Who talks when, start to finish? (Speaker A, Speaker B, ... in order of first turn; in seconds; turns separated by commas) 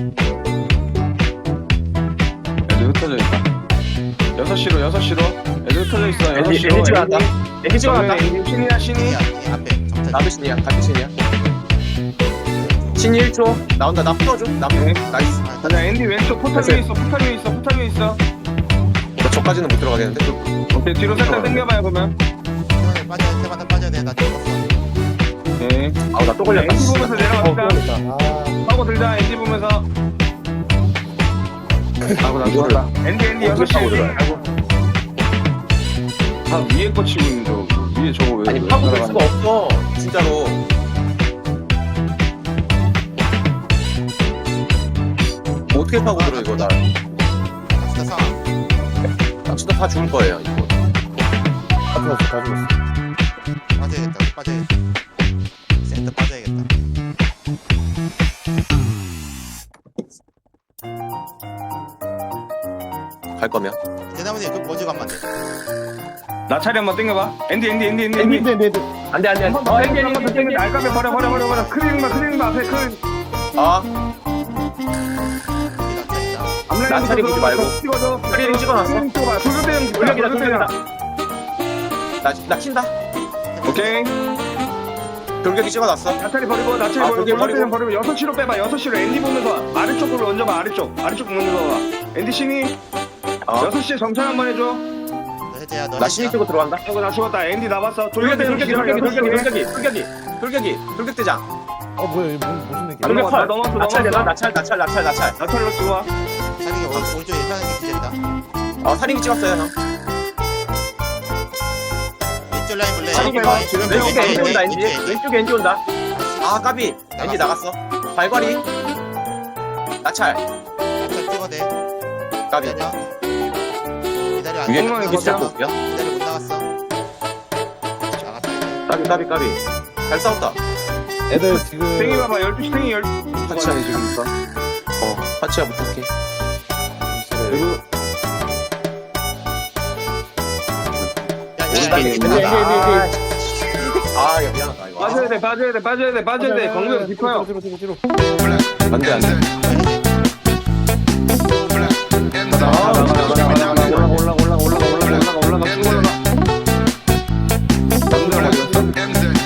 Speaker A: 2.7-3.5, Speaker A: 4.3-9.2, Speaker B: 6.3-8.2, Speaker C: 8.8-10.4, Speaker B: 10.1-11.1, Speaker C: 12.4-13.1, Speaker B: 12.9-15.5, Speaker A: 14.7-15.0, Speaker C: 15.0-16.0, Speaker A: 15.6-18.2, Speaker B: 16.5-16.8, Speaker B: 19.2-20.5, Speaker A: 20.7-22.1, Speaker B: 21.1-21.6, Speaker C: 22.7-24.7, Speaker A: 25.6-27.8, Speaker B: 26.1-27.5, Speaker D: 27.4-28.6, Speaker A: 28.6-29.9, Speaker A: 32.2-34.4, Speaker B: 32.4-32.8, Speaker B: 33.4-34.2, Speaker A: 36.5-39.2, Speaker B: 38.5-40.6, Speaker B: 45.7-46.8, Speaker C: 46.0-46.8, Speaker C: 47.7-48.4, Speaker B: 49.5-50.7, Speaker D: 51.9-52.7, Speaker C: 53.7-54.7, Speaker C: 55.8-56.7, Speaker B: 63.4-63.8, Speaker C: 64.1-65.3, Speaker A: 66.5-68.5, Speaker B: 68.2-68.4, Speaker D: 68.2-69.0, Speaker B: 69.1-70.7, Speaker A: 69.4-73.0, Speaker C: 70.7-72.0, Speaker B: 73.5-73.9, Speaker C: 75.7-76.6, Speaker A: 76.7-80.7, Speaker B: 76.8-77.8, Speaker B: 78.3-79.1, Speaker B: 79.9-80.7, Speaker B: 82.2-82.9, Speaker C: 83.5-84.1, Speaker A: 83.7-84.1, Speaker B: 85.4-86.2, Speaker A: 86.2-92.8, Speaker B: 87.0-87.7, Speaker B: 93.4-93.7, Speaker A: 93.6-94.8, Speaker C: 95.5-96.4, Speaker B: 96.0-96.8, Speaker A: 96.8-99.5, Speaker B: 98.2-101.4, Speaker D: 102.0-103.3, Speaker A: 103.0-104.3, Speaker B: 103.0-105.4, Speaker A: 105.4-106.1, Speaker C: 106.6-108.2, Speaker B: 108.8-109.7, Speaker C: 112.5-115.2, Speaker A: 113.1-114.6, Speaker B: 113.8-115.8, Speaker C: 116.1-117.6, Speaker B: 116.4-118.6, Speaker B: 120.0-120.4, Speaker C: 121.0-121.7, Speaker B: 122.5-122.8, Speaker C: 122.5-123.1, Speaker C: 124.3-126.7, Speaker B: 124.7-125.7, Speaker A: 124.7-125.5, Speaker C: 128.0-128.8, Speaker B: 128.9-130.6, Speaker D: 131.3-132.3, Speaker A: 131.3-134.3, Speaker B: 133.5-134.0, Speaker B: 135.0-136.1, Speaker D: 137.1-137.7, Speaker A: 137.5-137.8, Speaker C: 141.6-142.6, Speaker A: 141.7-142.5, Speaker B: 141.7-145.3, Speaker D: 142.1-143.1, Speaker A: 145.0-147.5, Speaker D: 146.3-148.0, Speaker B: 148.9-149.5, Speaker C: 149.5-150.2, Speaker A: 152.5-156.2, Speaker B: 152.6-154.2, Speaker D: 152.7-153.3, Speaker A: 158.1-158.8, Speaker D: 158.1-158.9